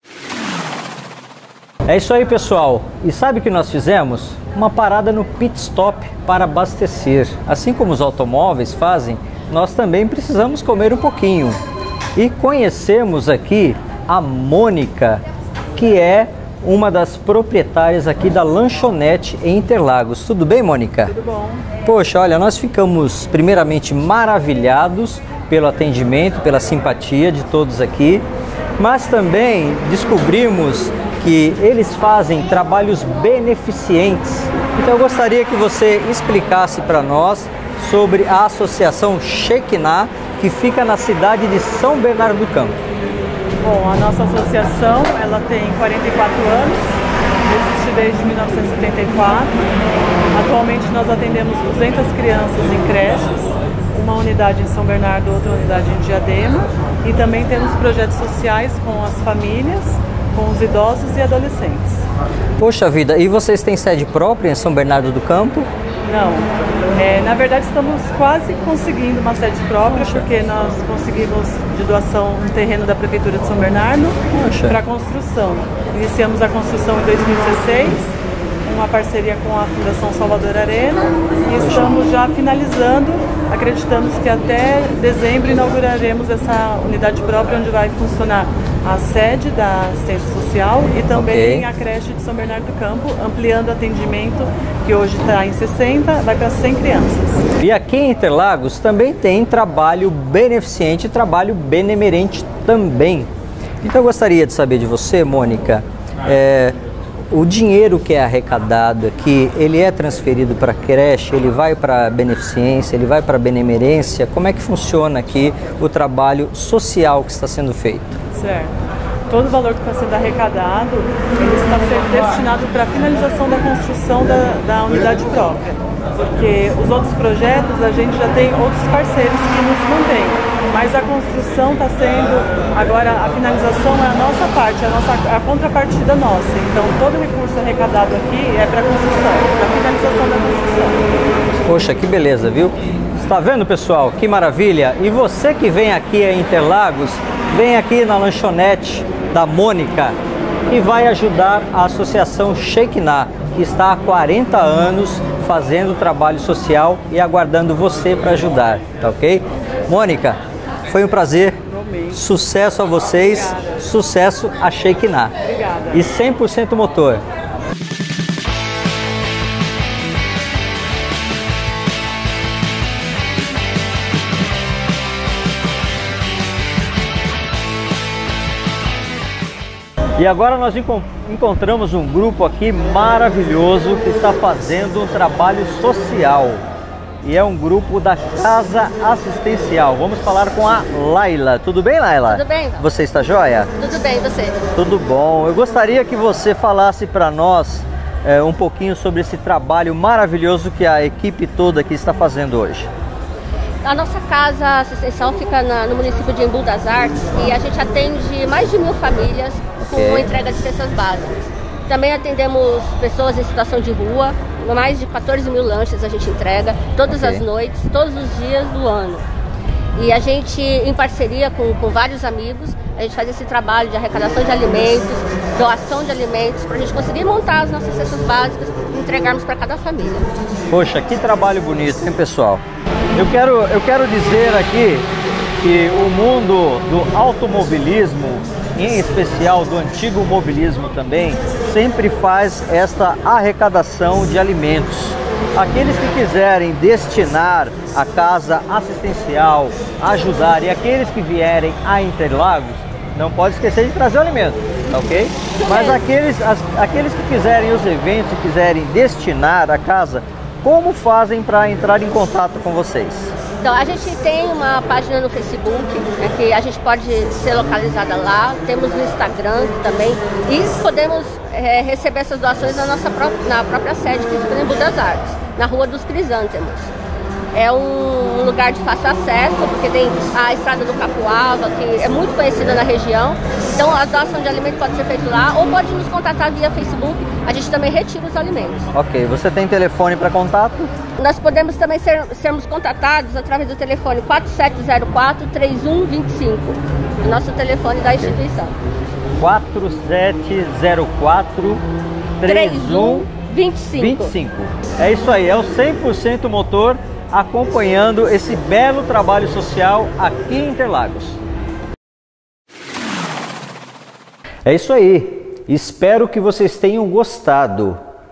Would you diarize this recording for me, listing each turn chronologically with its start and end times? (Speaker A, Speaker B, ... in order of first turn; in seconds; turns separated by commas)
Speaker A: 1.9-11.6, Speaker A: 12.2-15.2, Speaker A: 15.8-21.1, Speaker B: 21.1-21.6, Speaker A: 21.8-28.2, Speaker A: 28.8-42.8, Speaker B: 43.6-49.6, Speaker B: 50.3-62.0, Speaker A: 62.6-65.7, Speaker B: 66.0-97.5, Speaker A: 69.9-70.2, Speaker A: 74.3-74.8, Speaker A: 91.1-91.7, Speaker A: 97.6-103.3, Speaker A: 103.8-106.8, Speaker A: 107.3-118.2, Speaker B: 118.3-118.7, Speaker B: 119.3-125.8, Speaker B: 126.3-141.0, Speaker A: 141.6-150.2, Speaker A: 150.7-160.4, Speaker A: 160.9-161.6, Speaker B: 161.7-162.2, Speaker A: 162.1-165.3, Speaker B: 165.4-166.0, Speaker A: 165.9-167.2, Speaker A: 180.2-186.6, Speaker A: 187.2-193.7, Speaker C: 192.3-192.9, Speaker C: 193.8-194.6, Speaker A: 194.7-202.9, Speaker C: 203.8-211.3, Speaker A: 209.8-210.3, Speaker C: 211.9-219.2, Speaker A: 217.1-217.5, Speaker C: 219.9-230.3, Speaker A: 230.7-232.6, Speaker A: 233.1-235.1, Speaker A: 235.6-263.3, Speaker C: 255.6-256.0, Speaker C: 263.6-276.9, Speaker C: 277.5-288.9, Speaker A: 288.9-290.9, Speaker C: 291.2-298.8, Speaker A: 299.4-301.8, Speaker A: 302.4-303.3, Speaker C: 302.5-304.3, Speaker A: 304.0-311.4, Speaker A: 314.6-318.0